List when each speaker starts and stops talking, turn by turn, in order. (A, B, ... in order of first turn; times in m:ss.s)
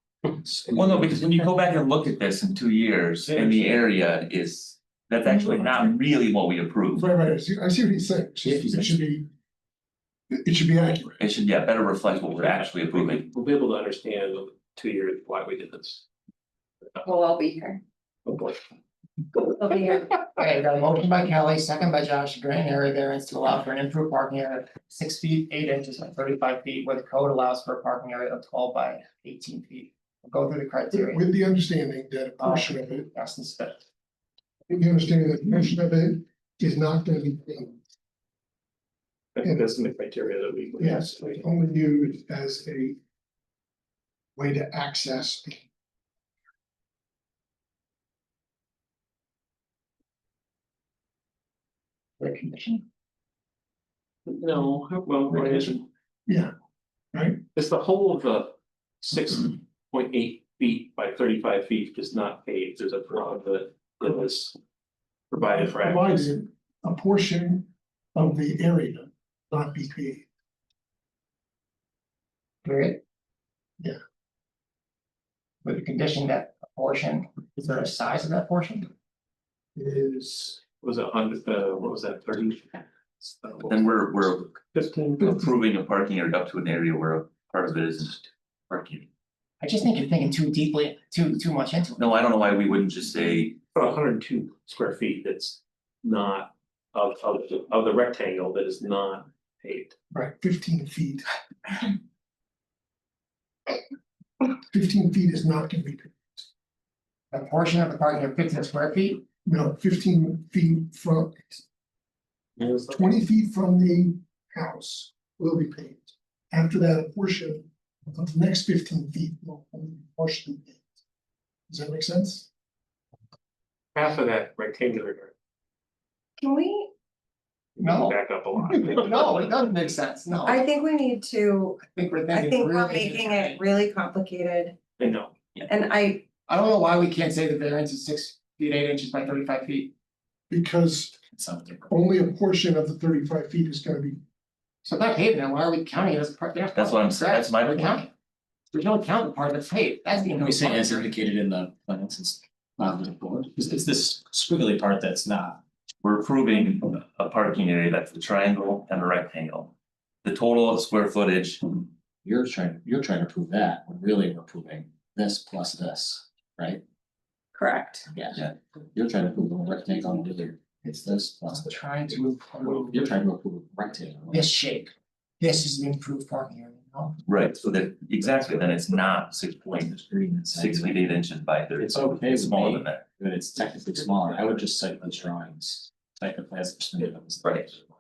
0:00.4-0:01.3 A
0:00.7-0:07.1 B
0:03.2-0:03.8 C
0:06.9-0:09.3 D
0:08.4-0:09.0 A
0:10.3-0:11.2 D
0:11.2-0:13.3 B
0:12.2-0:16.0 C
0:17.0-0:17.8 E
0:18.3-0:18.6 C
0:19.4-0:20.2 E
0:20.4-0:31.2 F
0:30.9-0:33.1 D
0:32.4-0:33.8 F
0:34.7-0:37.8 D
0:39.4-0:41.4 C
0:40.8-0:43.0 D
0:44.4-0:45.6 D
0:52.2-0:52.8 F
0:54.3-0:55.9 C
0:55.3-0:55.7 D
0:56.3-0:56.5 D
0:57.1-0:57.4 D
0:57.6-1:04.6 C
1:05.3-1:06.2 C
1:05.6-1:10.3 D
1:12.6-1:13.0 F
1:15.6-1:18.9 F
1:19.8-1:20.6 D
1:20.8-1:22.8 C
1:23.7-1:24.6 B
1:24.6-1:25.4 C
1:25.2-1:29.1 B
1:29.6-1:32.1 F
1:32.0-1:33.6 B
1:33.7-1:40.0 C
1:40.1-1:41.3 D
1:44.7-1:46.5 D
1:47.3-1:49.2 F
1:49.4-1:51.6 D
1:52.6-1:53.2 C
1:52.9-2:00.8 D
2:01.7-2:02.5 D
2:04.0-2:05.3 C
2:06.4-2:06.9 E
2:07.8-2:08.2 F
2:07.8-2:09.4 C
2:08.7-2:10.6 F
2:10.4-2:11.8 E
2:11.8-2:13.6 F
2:12.3-2:14.8 E
2:15.0-2:15.3 C
2:15.7-2:16.2 E
2:16.5-2:19.9 F
2:20.5-2:21.2 D
2:21.3-2:21.9 A
2:21.9-2:24.2 D
2:24.8-2:28.1 F
2:26.8-2:28.0 B
2:28.7-2:31.1 F
2:30.2-2:35.6 A
2:36.0-2:39.7 B
2:40.2-2:41.8 B
2:42.2-2:46.8 A
2:47.5-2:48.1 E
2:48.1-2:51.8 A
2:51.5-2:53.0 F
2:52.8-2:54.5 A
2:54.3-2:57.2 F
2:57.3-3:00.0 B
2:59.7-3:01.1 A
3:00.5-3:03.0 B
3:01.8-3:07.7 A
3:07.4-3:07.7 B